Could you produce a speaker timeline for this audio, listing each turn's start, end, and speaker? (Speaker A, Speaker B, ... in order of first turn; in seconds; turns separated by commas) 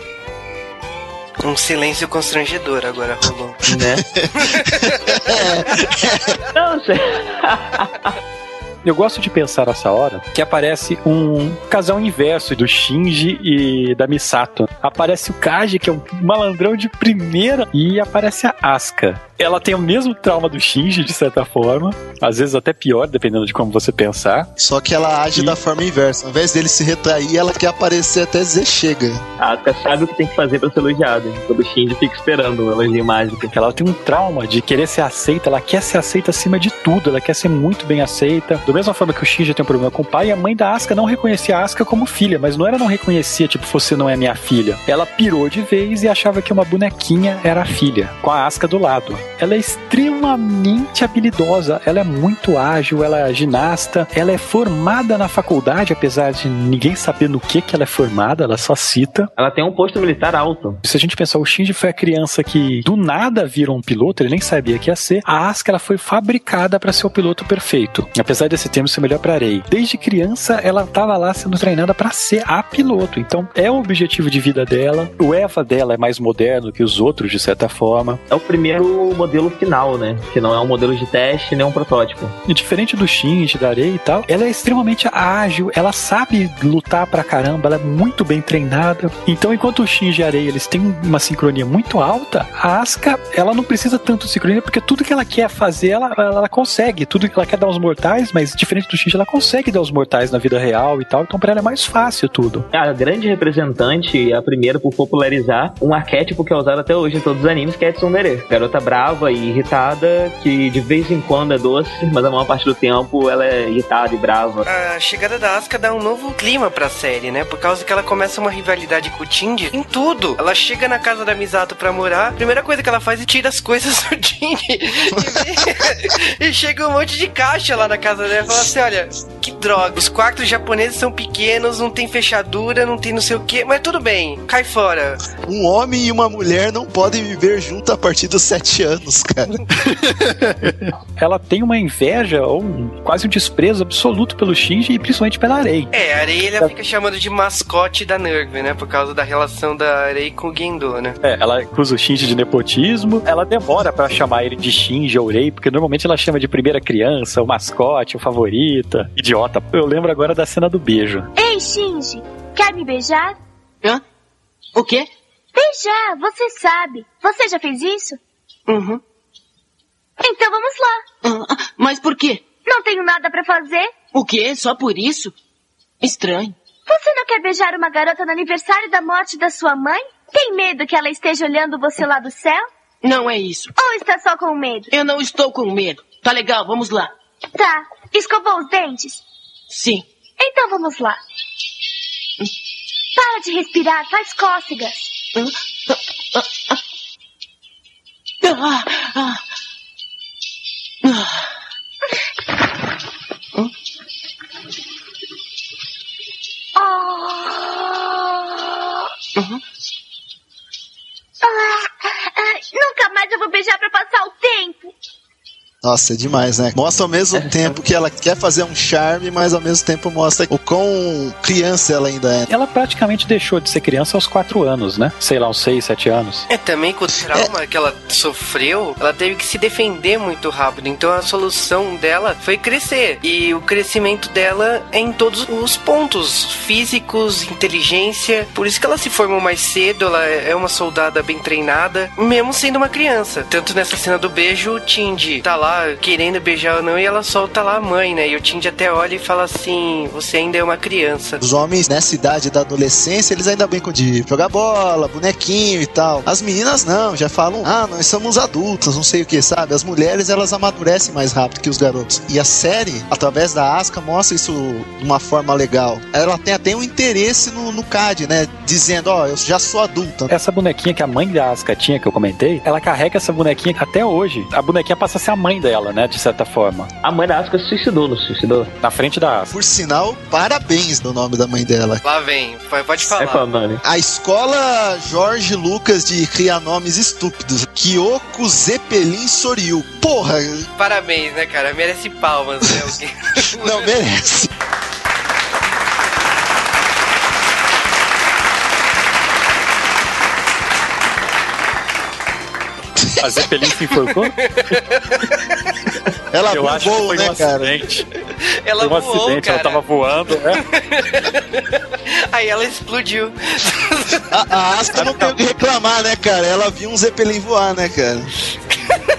Speaker A: 1.4-3.7, Speaker B: 3.7-4.0, Speaker C: 3.9-6.4, Speaker A: 4.5-5.3, Speaker B: 6.5-8.1, Speaker D: 8.8-24.5, Speaker C: 24.6-29.2, Speaker B: 29.4-33.5, Speaker D: 33.5-59.3, Speaker B: 59.4-60.8, Speaker D: 60.8-78.2, Speaker B: 78.3-82.3, Speaker D: 82.5-102.7, Speaker B: 102.7-114.7, Speaker A: 114.7-135.2, Speaker C: 135.4-139.6, Speaker D: 140.7-145.9, Speaker A: 145.9-151.2, Speaker D: 151.2-161.3, Speaker E: 161.4-163.4, Speaker F: 164.8-165.1, Speaker E: 165.6-168.2, Speaker F: 168.7-169.0, Speaker E: 170.2-171.0, Speaker F: 171.2-172.5, Speaker E: 172.7-173.9, Speaker F: 174.1-175.3, Speaker F: 176.0-176.6, Speaker E: 176.9-182.6, Speaker F: 183.0-183.7, Speaker E: 183.8-184.9, Speaker F: 184.9-187.1, Speaker E: 187.5-189.2, Speaker F: 189.7-190.1, Speaker E: 190.4-191.2, Speaker E: 193.2-195.2, Speaker F: 198.4-199.4, Speaker F: 201.0-201.3, Speaker E: 206.8-208.5, Speaker E: 211.4-214.9, Speaker C: 215.8-222.5, Speaker D: 222.5-226.5, Speaker A: 226.5-251.4, Speaker C: 251.4-270.3, Speaker D: 270.3-276.9, Speaker B: 277.0-278.7, Speaker D: 278.8-279.5, Speaker C: 279.5-282.0, Speaker A: 282.0-283.4, Speaker B: 283.0-283.8, Speaker C: 283.8-290.7, Speaker A: 290.8-293.9, Speaker C: 293.6-294.5, Speaker D: 303.2-304.4, Speaker A: 304.4-305.2, Speaker C: 306.3-307.7, Speaker D: 306.5-308.1, Speaker A: 308.5-309.8, Speaker D: 308.8-310.6, Speaker A: 310.6-311.7, Speaker A: 312.3-314.3, Speaker C: 314.3-318.3, Speaker D: 314.9-315.4